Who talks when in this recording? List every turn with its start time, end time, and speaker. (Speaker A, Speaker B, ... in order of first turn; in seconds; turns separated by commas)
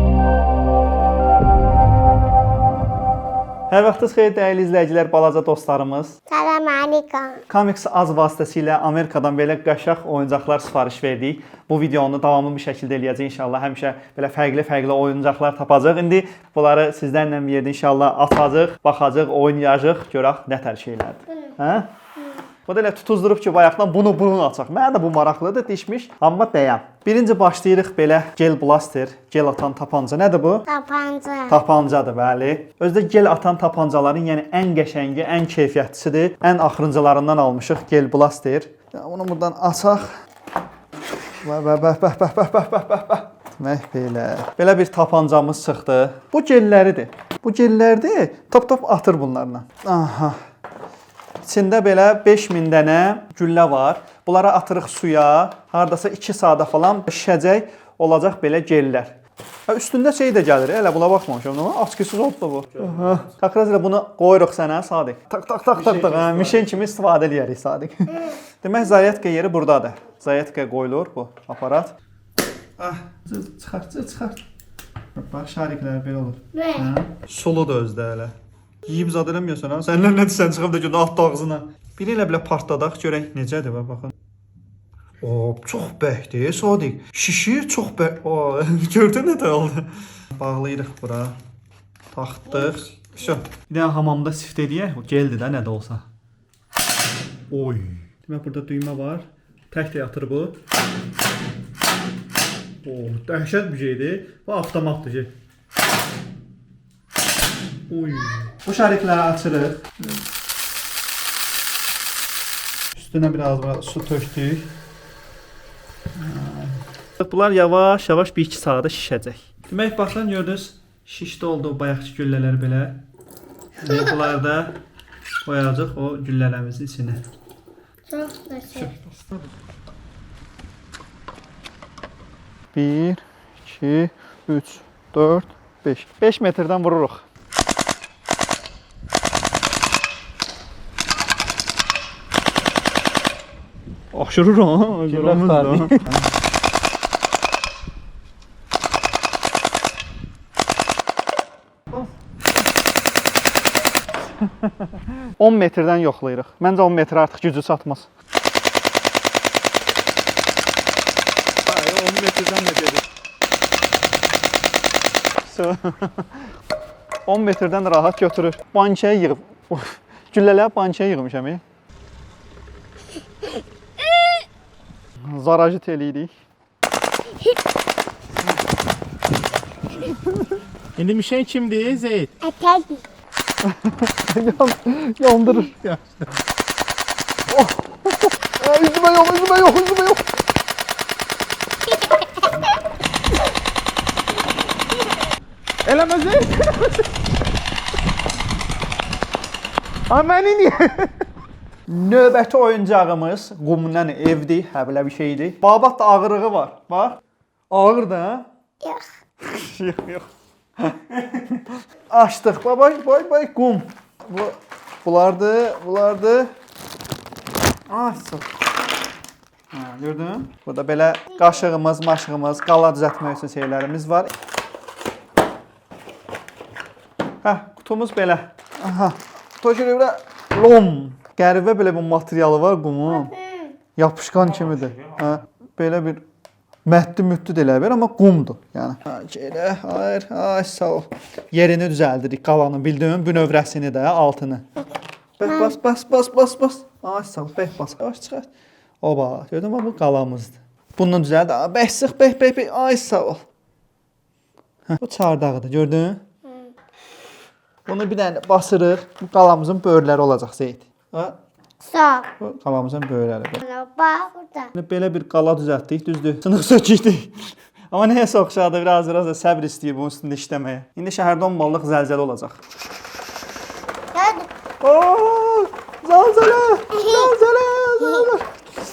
Speaker A: 3.7-6.2, Speaker B: 6.3-7.4, Speaker A: 7.5-21.9, Speaker B: 21.3-21.5, Speaker B: 22.2-22.4, Speaker A: 22.7-30.7, Speaker B: 30.7-31.6, Speaker A: 31.5-40.1, Speaker A: 41.4-50.4, Speaker A: 51.4-59.1, Speaker A: 59.7-72.0, Speaker C: 62.8-63.3, Speaker C: 65.7-66.8, Speaker A: 72.8-74.4, Speaker A: 75.1-84.1, Speaker B: 76.5-76.9, Speaker A: 85.2-91.3, Speaker A: 92.1-96.0, Speaker B: 92.5-93.3, Speaker A: 97.5-100.6, Speaker A: 102.8-105.3, Speaker A: 107.9-110.2, Speaker A: 112.9-114.7, Speaker A: 116.2-123.0, Speaker A: 123.8-124.8, Speaker B: 123.9-124.2, Speaker A: 125.4-127.2, Speaker B: 128.1-128.9, Speaker A: 132.7-137.2, Speaker A: 144.1-146.2, Speaker C: 145.0-145.9, Speaker A: 154.4-158.1, Speaker A: 161.7-163.0, Speaker A: 165.4-166.5, Speaker A: 167.3-171.6, Speaker A: 175.2-176.3, Speaker C: 181.0-182.3, Speaker B: 182.4-183.0, Speaker A: 183.6-185.7, Speaker C: 185.8-186.2, Speaker A: 187.5-190.2, Speaker C: 195.8-197.0, Speaker C: 200.1-201.1, Speaker A: 201.9-207.2, Speaker A: 207.7-208.5, Speaker A: 209.4-210.2, Speaker A: 210.9-216.5, Speaker A: 217.9-218.5, Speaker A: 219.7-224.3, Speaker A: 227.4-233.3, Speaker B: 233.1-233.8, Speaker A: 233.9-236.2, Speaker C: 234.4-235.2, Speaker A: 236.8-244.6, Speaker A: 245.4-248.5, Speaker B: 245.4-245.8, Speaker A: 249.0-253.4, Speaker A: 254.9-256.2, Speaker B: 256.4-256.7, Speaker A: 257.9-261.4, Speaker B: 261.8-262.3, Speaker A: 262.4-263.6, Speaker B: 263.6-264.7, Speaker A: 264.7-267.3, Speaker A: 267.9-272.6, Speaker B: 274.1-274.5, Speaker A: 274.8-278.5, Speaker B: 276.9-277.4, Speaker B: 278.0-278.3